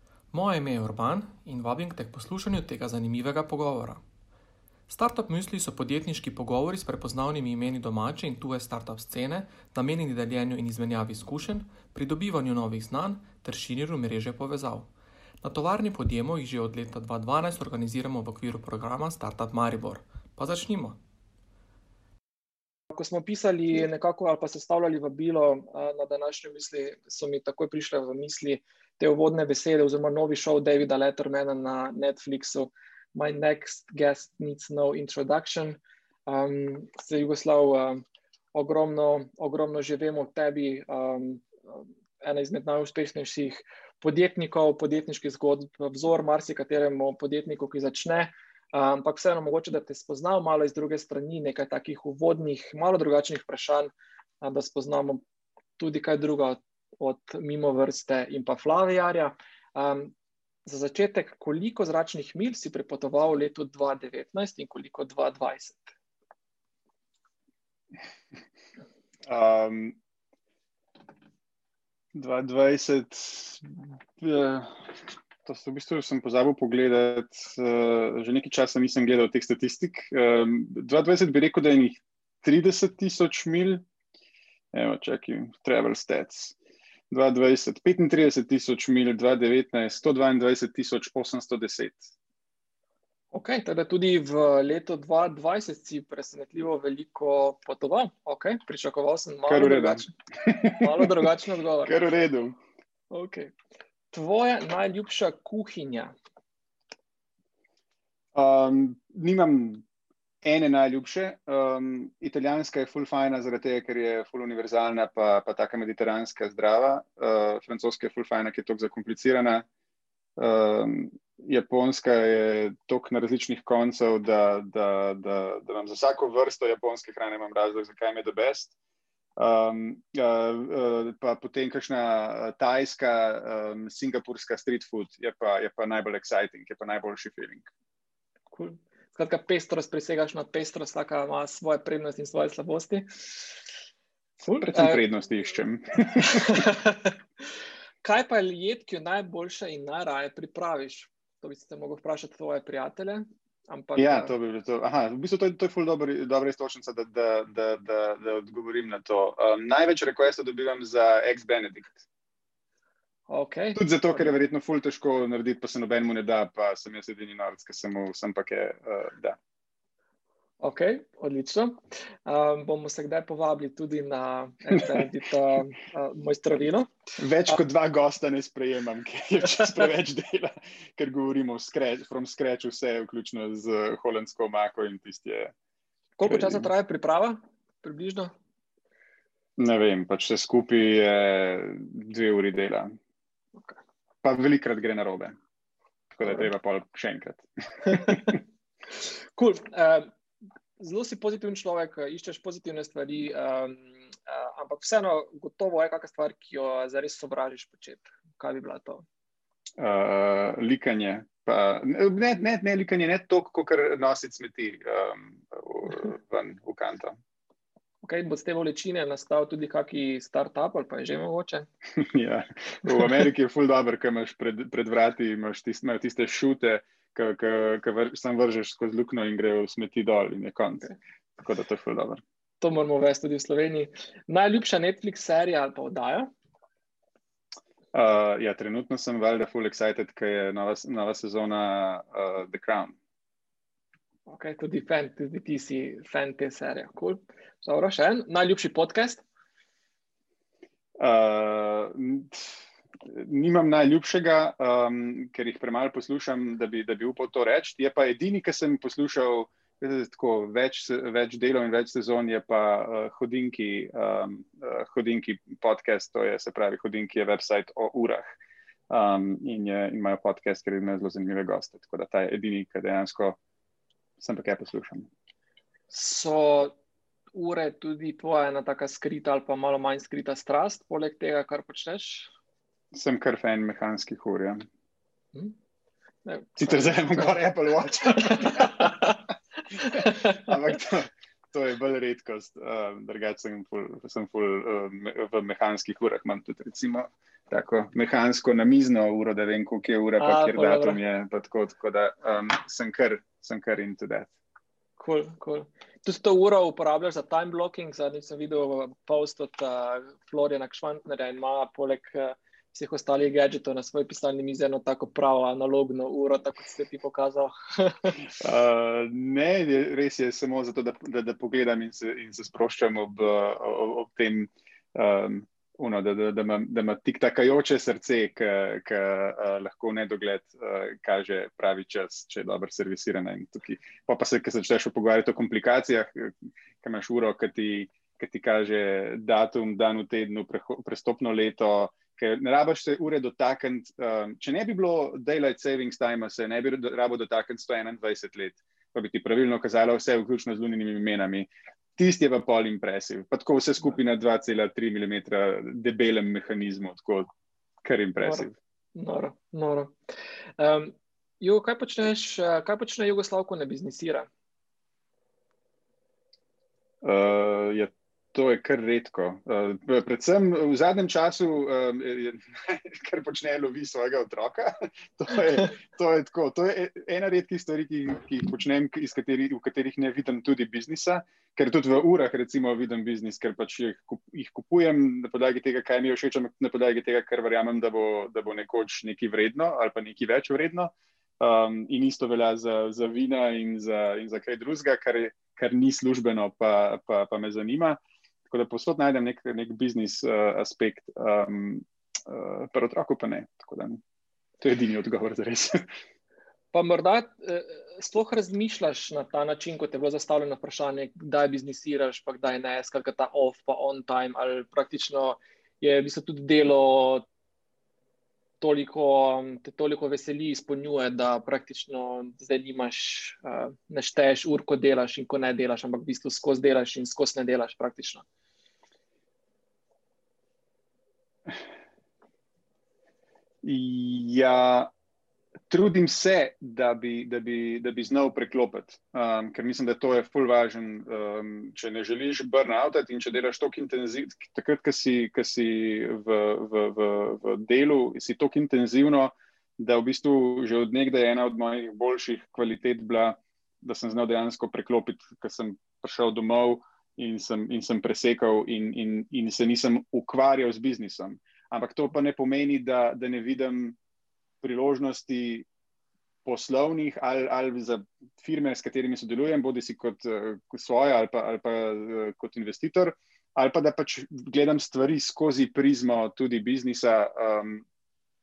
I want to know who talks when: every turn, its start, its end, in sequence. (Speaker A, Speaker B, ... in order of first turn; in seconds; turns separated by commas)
Speaker A: 0.3-4.0, Speaker A: 4.9-14.9, Speaker A: 15.4-21.0, Speaker B: 22.9-38.0, Speaker B: 38.5-55.2, Speaker B: 55.8-60.1, Speaker B: 60.6-65.9, Speaker C: 69.2-70.0, Speaker C: 72.1-83.8, Speaker C: 84.7-86.5, Speaker C: 87.1-92.1, Speaker B: 93.3-102.0, Speaker C: 99.5-101.2, Speaker C: 101.8-102.6, Speaker B: 103.1-103.5, Speaker B: 104.1-106.1, Speaker C: 108.3-109.8, Speaker C: 110.4-119.7, Speaker C: 120.4-128.7, Speaker C: 129.4-137.7, Speaker B: 138.5-143.5, Speaker B: 144.5-145.0, Speaker C: 144.5-146.7, Speaker B: 146.3-147.2, Speaker B: 148.0-154.3, Speaker C: 154.0-162.1, Speaker B: 163.3-164.3, Speaker C: 163.8-169.4, Speaker B: 170.6-176.9, Speaker C: 177.2-185.5, Speaker B: 186.2-188.3, Speaker C: 186.3-186.7, Speaker C: 189.6-192.9, Speaker C: 194.2-195.3, Speaker C: 196.1-198.4, Speaker B: 197.9-198.3, Speaker B: 199.0-200.1, Speaker B: 200.8-209.1, Speaker C: 209.8-217.2, Speaker B: 218.0-221.7, Speaker C: 222.0-232.2, Speaker B: 232.6-236.3, Speaker C: 237.9-243.0, Speaker B: 244.3-249.2, Speaker C: 251.0-268.4, Speaker C: 268.9-273.4, Speaker C: 274.2-275.1, Speaker B: 275.9-276.8, Speaker B: 277.3-282.3, Speaker C: 282.9-284.6, Speaker B: 286.2-287.3, Speaker C: 286.6-289.1, Speaker B: 288.2-289.1, Speaker C: 289.8-304.3, Speaker B: 289.9-290.4, Speaker B: 300.2-301.0, Speaker B: 305.0-318.3, Speaker C: 318.3-357.3, Speaker C: 357.8-358.5, Speaker B: 358.2-359.9, Speaker B: 360.6-364.3, Speaker C: 367.0-404.0, Speaker C: 404.6-405.9, Speaker B: 406.7-417.2, Speaker B: 418.6-428.2, Speaker C: 433.6-434.9, Speaker C: 435.7-464.0, Speaker C: 464.6-465.7, Speaker C: 466.4-477.9